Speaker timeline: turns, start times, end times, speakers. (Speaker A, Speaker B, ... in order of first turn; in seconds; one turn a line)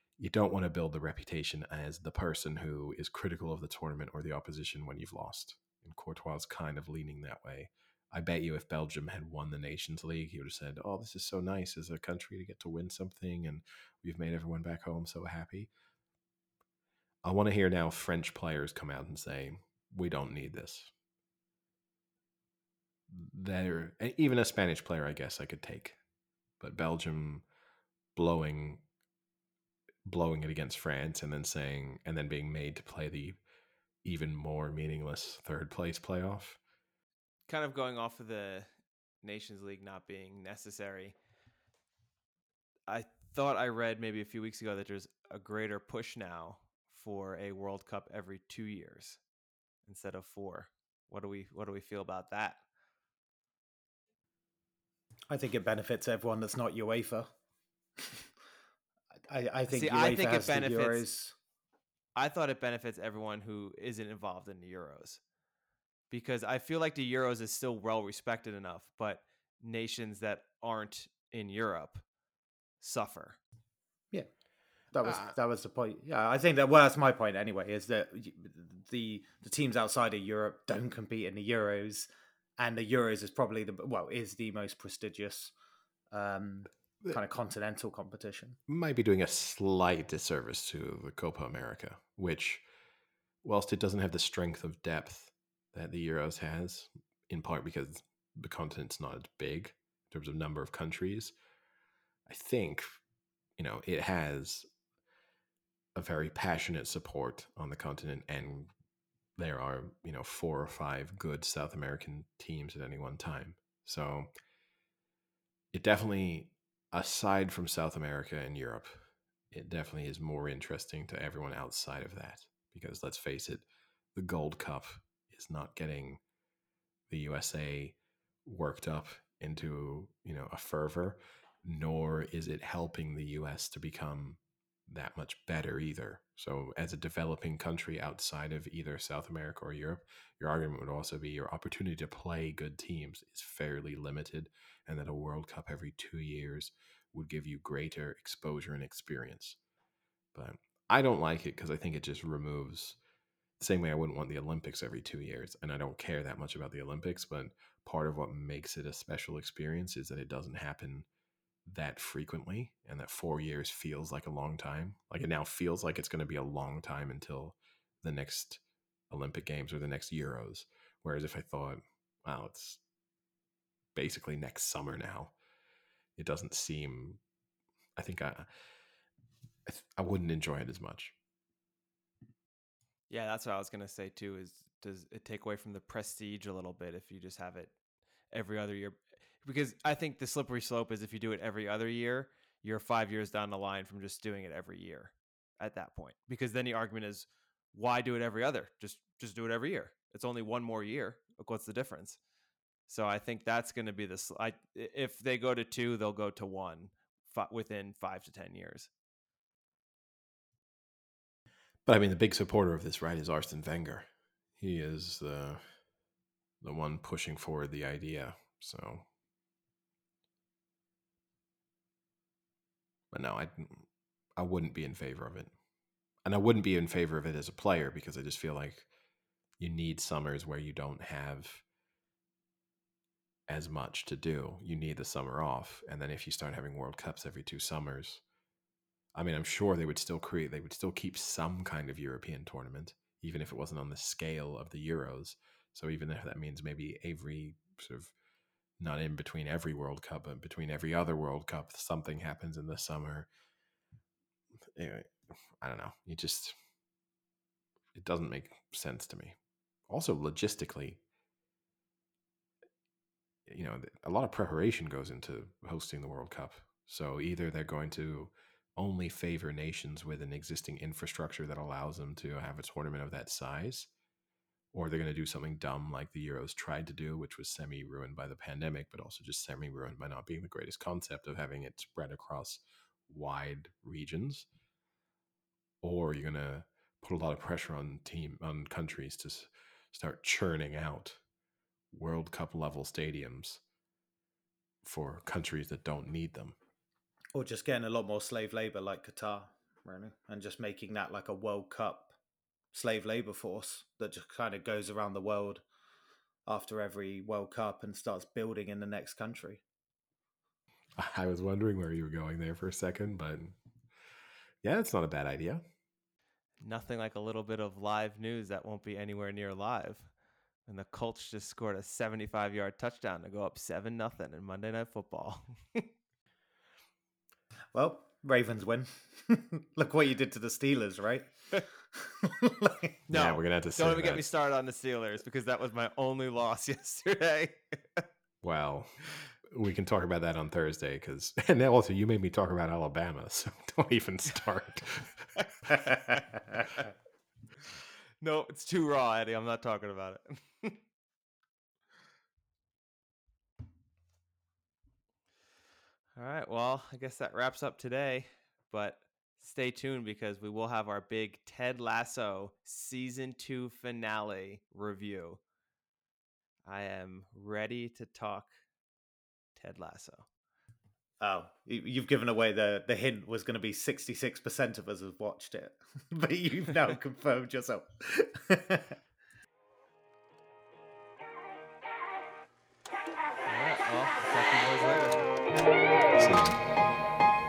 Speaker A: 0.2-15.7
Speaker A: 17.2-20.9
Speaker A: 23.1-26.0
Speaker A: 26.6-27.4
Speaker A: 28.1-28.8
Speaker A: 30.1-33.4
Speaker A: 34.0-36.6
Speaker B: 37.5-38.7
Speaker B: 39.2-41.1
Speaker B: 42.9-49.2
Speaker B: 49.9-52.6
Speaker C: 55.3-57.3
Speaker C: 58.0-58.2
Speaker C: 59.3-61.3
Speaker B: 59.7-61.0
Speaker B: 62.1-65.2
Speaker B: 66.1-72.0
Speaker B: 72.8-73.4
Speaker C: 74.9-85.5
Speaker A: 75.0-75.3
Speaker C: 86.1-88.6
Speaker A: 88.7-92.6
Speaker A: 93.4-101.3
Speaker A: 102.3-103.0
Speaker A: 103.6-104.7
Speaker A: 106.0-108.7
Speaker A: 109.4-114.3
Speaker A: 115.7-126.2
Speaker A: 127.1-149.6
Speaker A: 150.3-153.0
Speaker A: 153.6-161.1
Speaker A: 161.7-172.8
Speaker A: 173.9-175.3
Speaker A: 176.2-177.2
Speaker A: 177.9-178.4
Speaker A: 179.7-181.2
Speaker B: 183.1-187.7
Speaker B: 188.3-202.2
Speaker B: 202.9-208.9
Speaker A: 211.8-214.1
Speaker A: 214.6-215.6
Speaker A: 216.6-219.1
Speaker A: 223.1-225.5
Speaker A: 226.2-228.9
Speaker A: 229.6-231.6
Speaker A: 233.5-238.2
Speaker A: 239.2-248.1
Speaker A: 248.8-253.3
Speaker A: 254.8-256.5
Speaker A: 257.9-259.4
Speaker A: 259.9-261.0
Speaker A: 263.5-273.9
Speaker A: 274.7-284.5
Speaker A: 285.8-291.2
Speaker A: 291.9-293.6
Speaker A: 294.8-296.6
Speaker C: 297.3-302.1
Speaker C: 302.7-305.6
Speaker C: 306.4-309.6
Speaker A: 311.0-313.5
Speaker A: 314.6-315.6
Speaker B: 316.6-320.1
Speaker B: 320.6-325.9
Speaker C: 327.7-331.3
Speaker C: 331.9-332.9
Speaker B: 333.1-338.0
Speaker A: 333.1-334.3
Speaker A: 338.4-345.3
Speaker B: 345.7-346.2
Speaker B: 348.2-350.8
Speaker B: 356.1-365.4
Speaker B: 366.6-368.5
Speaker B: 369.6-370.3
Speaker C: 371.2-378.9
Speaker B: 383.4-385.3
Speaker A: 386.1-386.6